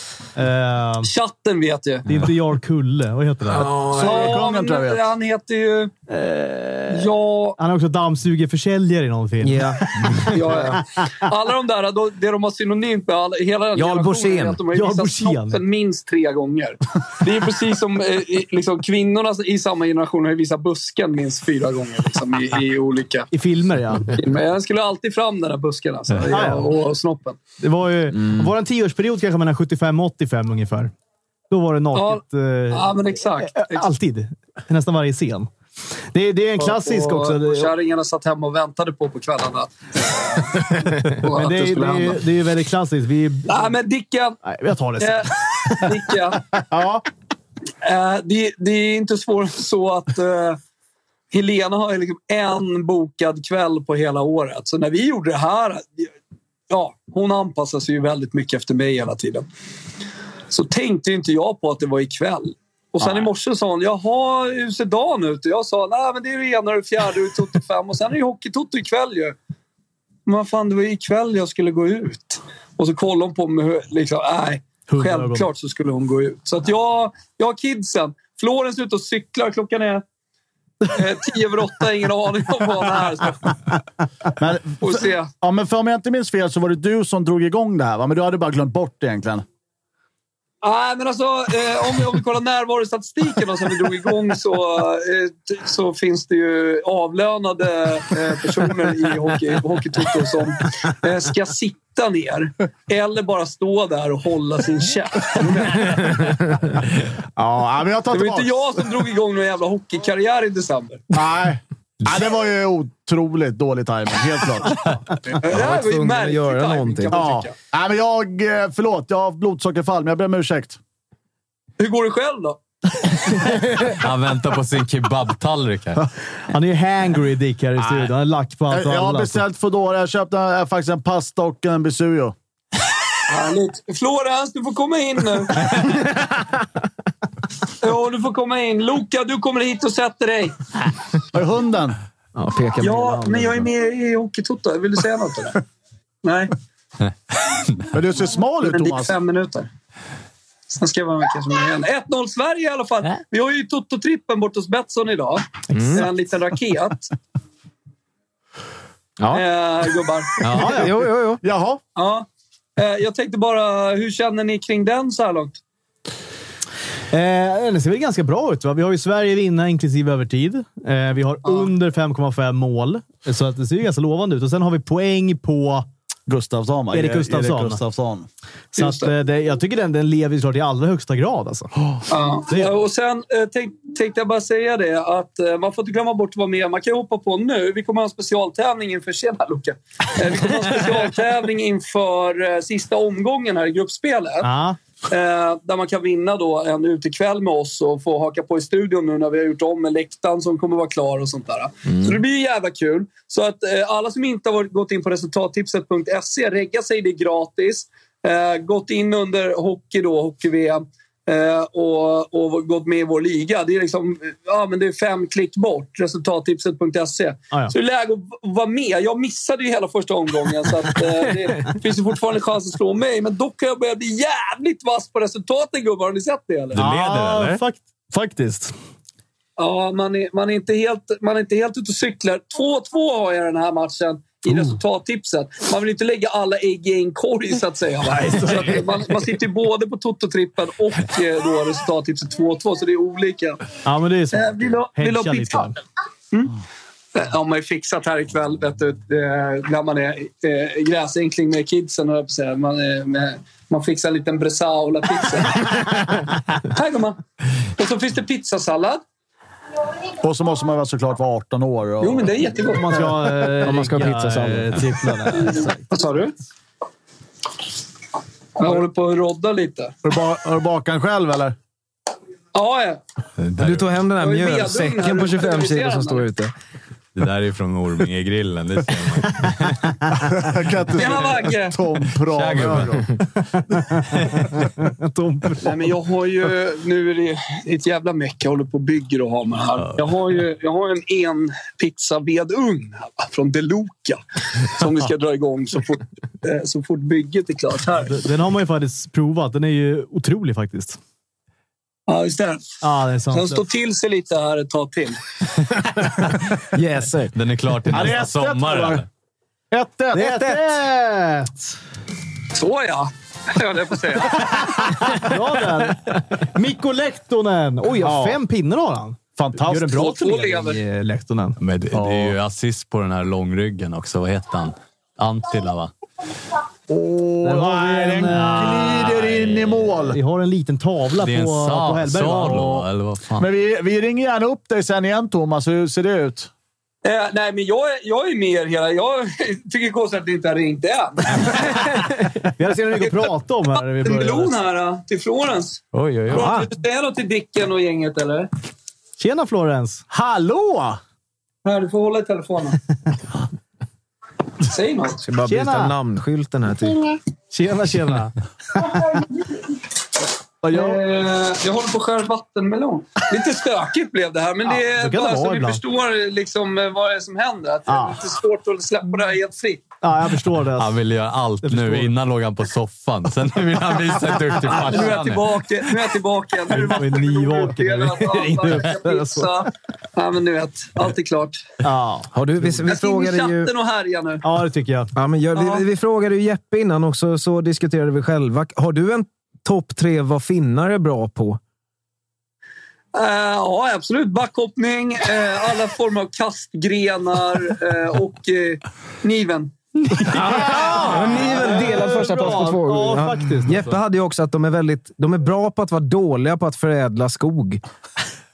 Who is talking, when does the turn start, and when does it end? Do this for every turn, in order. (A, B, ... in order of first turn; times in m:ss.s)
0:00.4-0:01.1 A
0:01.0-0:02.1 B
0:02.1-0:03.8 A
0:03.5-0:04.2 C
0:03.8-0:05.1 D
0:03.9-0:05.9 B
0:06.1-0:10.8 A
0:06.9-0:07.6 B
0:09.4-0:10.2 C
0:10.3-0:23.3 B
0:13.8-0:14.6 C
0:14.7-0:15.6 A
0:23.3-0:24.1 A
0:24.1-0:27.4 B
0:26.3-0:26.7 A
0:27.6-0:30.9 A
0:31.5-0:35.5 A
0:31.9-0:33.9 B
0:36.1-0:37.7 A
0:36.6-0:42.2 B
0:41.2-0:43.7 A
0:43.5-0:44.4 B
0:44.4-0:45.9 A
0:45.0-0:46.4 B
0:46.5-0:47.0 D
0:47.8-0:50.6 B
0:51.3-0:56.1 B
0:56.7-0:59.5 B
1:00.5-1:09.4 B
1:10.3-1:20.0 B
1:14.9-1:15.5 A
1:20.9-1:23.5 B
1:24.4-1:29.4 D
1:24.8-1:25.3 B
1:30.6-1:46.3 B
1:47.4-1:48.9 D
1:48.1-1:51.0 B
1:51.1-1:55.4 D
1:55.4-1:57.6 B
1:55.4-1:57.2 C
1:57.1-2:00.8 D
2:01.8-2:02.6 B
2:03.6-2:06.1 E
2:06.5-2:09.4 A
2:07.8-2:08.1 D
2:08.7-2:12.4 D
2:13.3-2:15.9 B
2:17.8-2:20.6 B
2:21.3-2:22.0 D
2:22.4-2:23.7 C
2:22.8-2:25.6 B
2:26.2-2:26.5 B
2:27.9-2:29.2 D
2:28.6-2:29.7 B
2:30.7-2:37.1 B
2:35.7-2:36.1 C
2:39.2-2:39.5 C
2:39.3-2:40.4 B
2:40.4-2:40.8 E
2:40.5-2:40.9 A
2:40.5-2:41.4 C
2:41.4-2:41.8 D
2:42.0-2:45.6 B
2:47.1-2:55.9 A
2:56.3-2:58.3 D
2:56.9-2:57.8 A
2:58.8-2:59.1 B
2:58.8-3:01.7 A
3:02.1-3:14.5 B
3:14.4-3:14.8 A
3:15.1-3:46.8 B
3:21.9-3:22.2 C
3:46.7-3:47.6 E
3:46.8-3:48.7 A
3:49.6-4:03.6 B
3:58.4-3:58.6 A
4:03.8-4:05.8 A
4:04.3-4:05.7 B
4:07.1-4:16.1 B
4:16.7-4:17.2 B
4:17.8-4:19.0 B
4:20.2-4:22.4 D
4:22.0-4:23.2 B
4:22.7-4:25.9 A
4:23.6-4:24.8 C
4:25.9-4:26.4 B
4:28.6-4:29.9 B
4:30.0-4:31.6 D
4:32.5-4:33.0 B
4:33.4-4:34.0 E
4:33.6-4:36.5 C
4:34.2-4:36.3 B
4:37.2-4:39.9 E
4:40.1-4:43.1 D
4:41.0-4:41.8 B
4:42.3-4:43.0 E
4:43.9-4:45.7 A
4:45.6-4:58.2 B
4:58.0-5:01.0 A
5:02.1-5:05.2 B
5:02.8-5:03.6 A
5:06.7-5:07.4 C
5:07.3-5:09.1 E
5:07.9-5:09.0 D
5:09.7-5:10.6 D
5:10.1-5:11.7 A
5:12.5-5:14.7 B
5:15.1-5:21.6 A
5:18.0-5:18.4 D
5:19.4-5:20.1 D
5:19.9-5:20.8 B
5:21.6-5:25.9 E
5:21.9-5:22.4 D
5:26.9-5:30.2 D
5:27.4-5:29.2 A
5:29.1-5:29.8 E
5:30.1-5:32.6 A
5:31.2-5:33.5 E
5:32.4-5:36.5 D
5:37.0-5:42.0 B
5:42.1-5:44.6 A
5:44.0-5:48.5 B
5:45.9-5:46.5 E
5:46.3-5:46.7 C
5:49.2-5:50.2 A
5:50.2-5:51.0 D
5:51.6-5:52.8 B
5:54.7-5:55.2 B
5:55.2-5:57.1 C
5:55.5-5:56.0 A
5:57.5-5:59.2 A
6:00.6-6:01.0 A
6:00.7-6:09.8 B
6:04.6-6:05.8 A
6:07.9-6:08.2 A
6:10.0-6:11.0 A
6:10.8-6:15.7 E
6:11.6-6:12.2 A
6:14.7-6:21.7 B
6:16.7-6:19.7 A
6:21.8-6:22.8 A
6:22.3-6:23.7 C
6:22.8-6:24.4 B
6:24.4-6:25.1 A
6:25.2-6:31.6 C
6:25.5-6:25.8 B
6:33.1-6:39.8 B
6:40.2-6:44.0 A
6:40.3-6:40.6 B
6:40.4-6:47.8 C